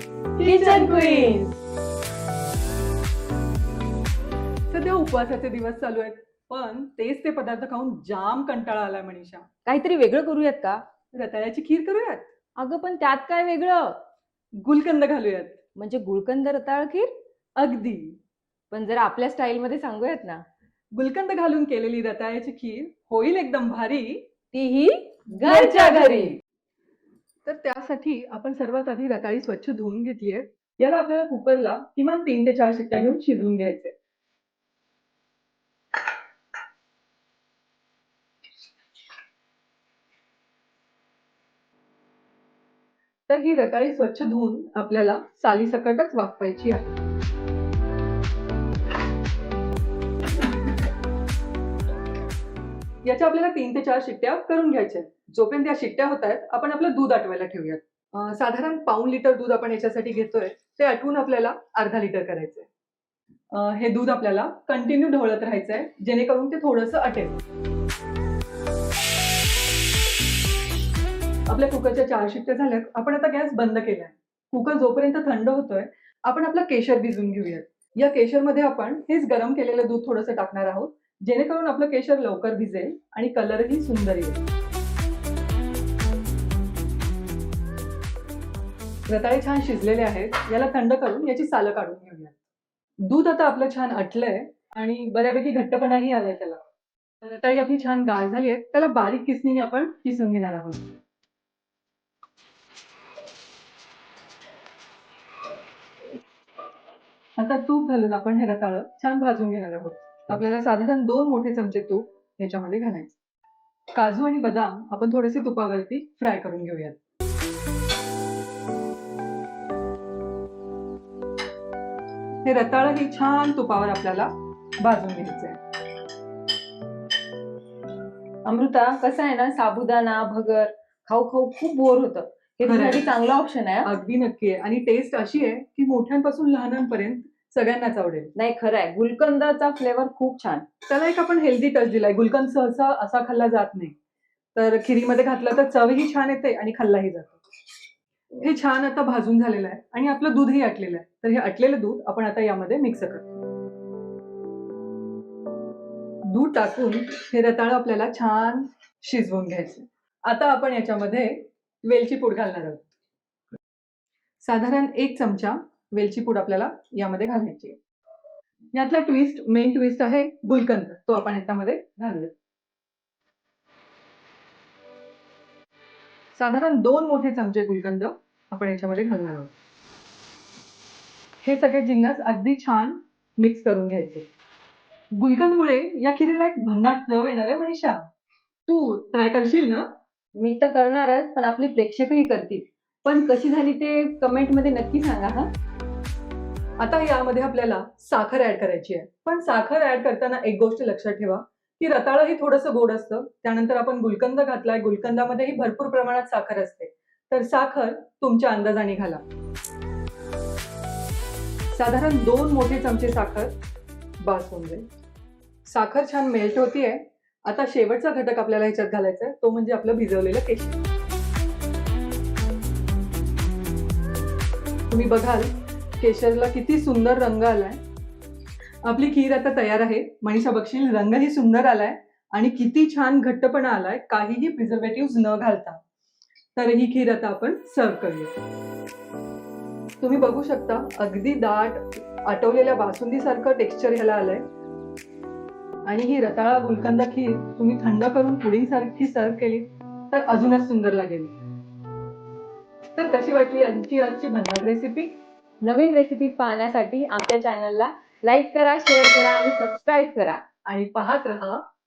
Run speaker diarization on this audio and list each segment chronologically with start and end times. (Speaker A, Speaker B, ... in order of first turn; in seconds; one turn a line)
Speaker A: 0.4-1.4
Speaker B: 0.4-1.6
Speaker A: 4.7-9.5
Speaker B: 9.7-10.8
Speaker A: 11.1-12.3
Speaker B: 12.6-14.0
Speaker A: 14.6-15.6
Speaker B: 15.8-17.1
Speaker A: 17.6-18.2
Speaker B: 18.7-20.4
Speaker A: 20.9-24.3
Speaker B: 24.5-26.4
Speaker A: 25.4-26.4
Speaker A: 27.5-33.9
Speaker A: 43.3-47.0
Speaker A: 53.0-62.7
Speaker A: 63.5-67.4
Speaker A: 71.5-84.4
Speaker A: 89.1-92.3
Speaker A: 93.1-96.6
Speaker A: 97.2-100.8
Speaker A: 107.4-113.1
Speaker A: 114.0-117.0
Speaker A: 122.5-125.6
Speaker B: 128.4-133.9
Speaker A: 132.7-133.1
Speaker A: 133.8-138.3
Speaker B: 138.4-140.7
Speaker A: 140.9-143.9
Speaker A: 144.6-147.4
Speaker A: 148.4-153.4
Speaker A: 156.3-162.9
Speaker A: 164.4-167.8
Speaker A: 168.7-172.3
Speaker A: 176.4-179.5
Speaker A: 181.4-184.3
Speaker A: 185.2-188.0
Speaker A: 188.7-189.9
Speaker B: 190.4-195.5
Speaker A: 196.8-209.2
Speaker A: 211.7-213.5
Speaker A: 214.2-214.8
Speaker A: 215.7-220.8
Speaker A: 224.9-227.8
Speaker A: 228.8-235.8
Speaker A: 236.6-238.3
Speaker A: 240.0-244.4
Speaker A: 245.9-251.3
Speaker A: 253.0-255.2
Speaker B: 255.6-260.4
Speaker A: 260.6-261.6